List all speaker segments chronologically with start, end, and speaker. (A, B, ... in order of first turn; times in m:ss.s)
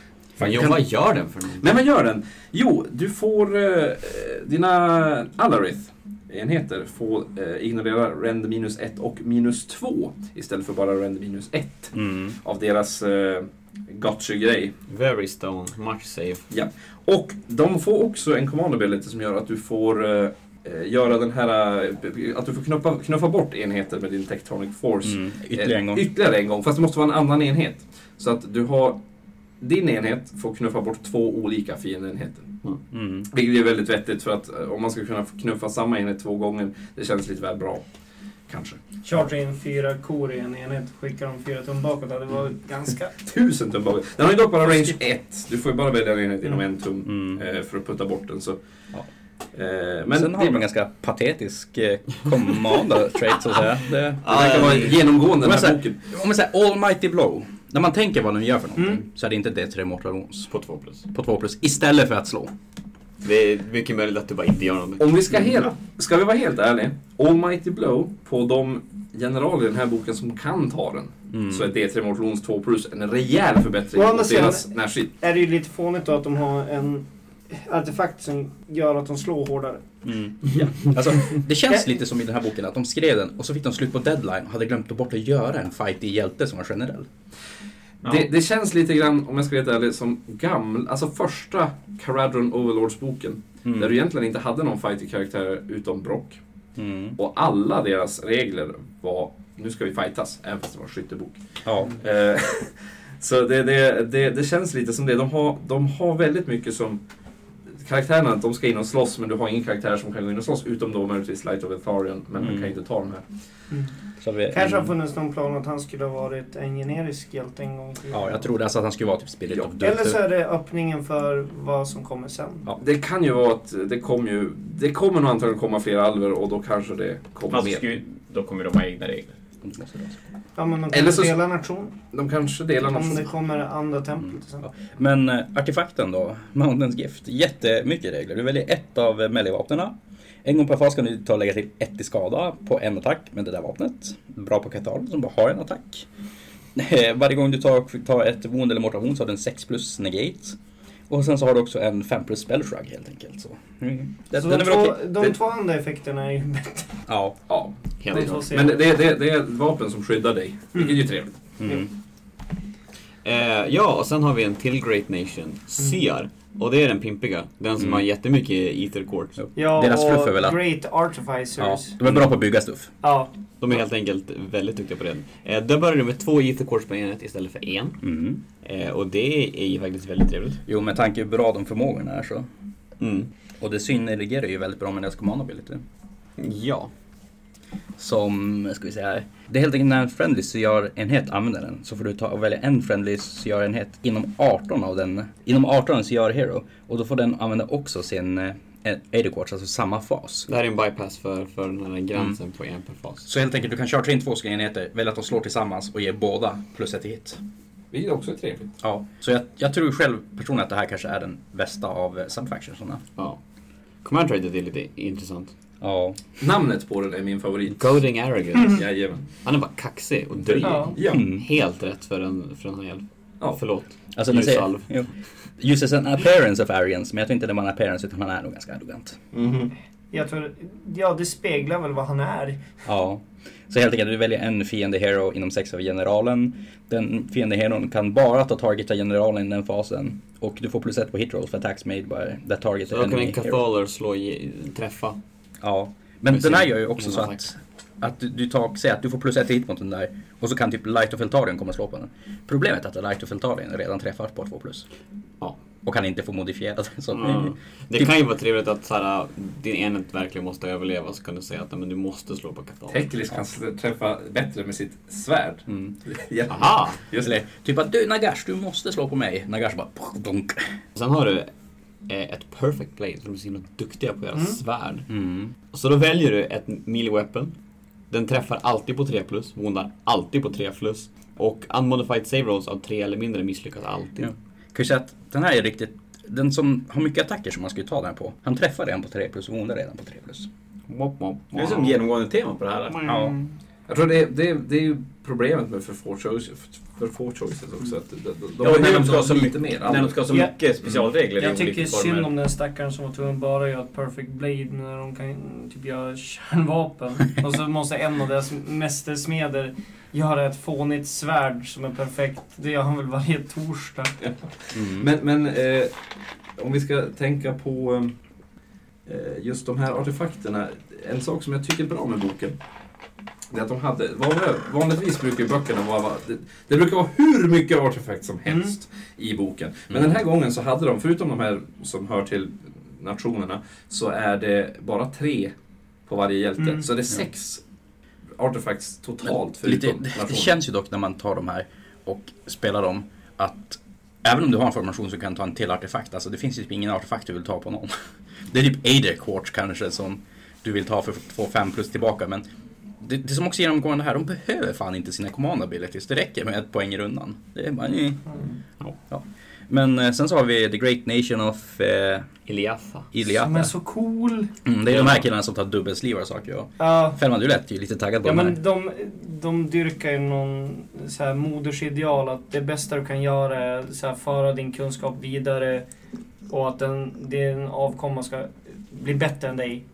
0:00.4-0:00.8 A
0:00.4-0:01.6 B
0:01.6-0:14.7 A
0:11.9-0:12.3 C
0:14.9-0:16.4 B
0:16.5-0:29.0 A
0:25.0-0:26.0 C
0:29.6-0:32.5 A
0:32.9-0:33.3 C
0:33.3-0:37.8 A
0:38.5-0:38.8 A
0:39.0-0:43.1 D
0:43.2-0:48.6 A
0:47.1-0:47.4 C
0:49.5-0:50.6 A
0:50.1-0:54.6 C
0:54.2-0:55.0 B
0:54.2-0:56.0 A
0:55.4-1:00.5 C
0:58.8-0:59.0 D
1:00.5-1:01.0 B
1:01.1-1:02.5 C
1:03.2-1:05.1 B
1:05.0-1:15.1 A
1:11.3-1:11.7 C
1:13.9-1:19.8 D
1:20.0-1:27.1 C
1:28.0-1:36.4 A
1:33.6-1:34.0 C
1:36.8-1:37.2 C
1:37.2-1:41.4 A
1:41.6-1:41.9 C
1:41.9-1:47.0 A
1:47.8-1:53.2 A
1:52.4-1:52.7 C
1:54.2-1:54.9 C
1:54.5-1:58.4 D
1:58.1-2:00.2 C
1:59.8-2:02.7 D
2:02.8-2:07.9 A
2:07.5-2:09.3 E
2:09.6-2:10.1 C
2:10.6-2:12.0 D
2:10.9-2:11.4 A
2:12.1-2:13.3 A
2:12.9-2:14.6 D
2:14.6-2:26.1 C
2:26.7-2:30.6 C
2:31.1-2:35.1 C
2:34.4-2:36.9 D
2:37.1-2:37.4 C
2:37.5-2:41.3 A
2:38.0-2:38.4 B
2:38.1-2:38.8 D
2:41.6-2:41.9 C
2:43.2-2:49.4 B
2:47.8-2:48.0 C
2:49.4-2:50.6 C
2:49.5-2:52.0 D
2:51.6-2:52.9 C
2:53.0-2:53.3 D
2:53.6-2:58.0 B
2:58.0-2:58.4 C
2:58.6-3:00.6 B
3:00.6-3:02.5 C
3:03.0-3:03.3 B
3:03.6-3:05.8 C
3:06.4-3:06.9 B
3:08.0-3:20.5 C
3:20.5-3:23.2 B
3:23.2-3:27.4 C
3:27.9-3:28.7 A
3:28.8-3:33.0 C
3:34.0-3:35.5 B
3:35.8-3:36.3 C
3:36.4-3:38.0 A
3:37.8-3:38.8 B
3:38.6-3:39.3 A
3:39.4-3:44.9 B
3:40.6-3:41.3 A
3:40.6-3:41.0 D
3:41.1-3:41.4 C
3:44.1-3:49.2 C
3:49.3-3:49.7 A
3:50.1-3:52.6 D
3:52.8-4:03.6 C
4:02.9-4:05.2 B
4:05.6-4:14.8 C
4:06.3-4:07.4 B
4:15.8-4:18.1 C
4:17.1-4:23.0 B
4:22.9-4:27.3 A
4:25.7-4:25.9 C
4:26.5-4:27.0 B
4:27.2-4:30.7 C
4:30.9-4:31.5 B
4:32.1-4:35.1 B
4:35.1-4:35.5 C
4:35.7-4:37.5 B
4:38.1-4:44.3 B
4:44.2-4:50.5 C
4:50.9-4:53.3 E
4:53.0-4:53.4 C
4:53.9-5:00.2 A
4:58.6-5:02.3 E
5:01.4-5:14.2 D
5:14.2-5:16.0 A
5:14.7-5:15.1 C
5:16.6-5:18.1 A
5:19.0-5:22.6 A
5:23.5-5:35.5 A
5:36.0-5:37.6 A
5:36.6-5:36.8 D
5:38.4-5:40.5 A
5:39.6-5:47.9 C
5:48.5-5:52.4 C
5:53.0-5:58.2 C
5:59.1-6:02.3 C
6:02.5-6:03.1 B
6:03.1-6:03.7 C
6:03.4-6:04.5 D
6:04.6-6:08.6 C
6:04.9-6:05.2 B
6:06.8-6:07.2 D
6:08.2-6:15.8 D
6:16.5-6:19.8 D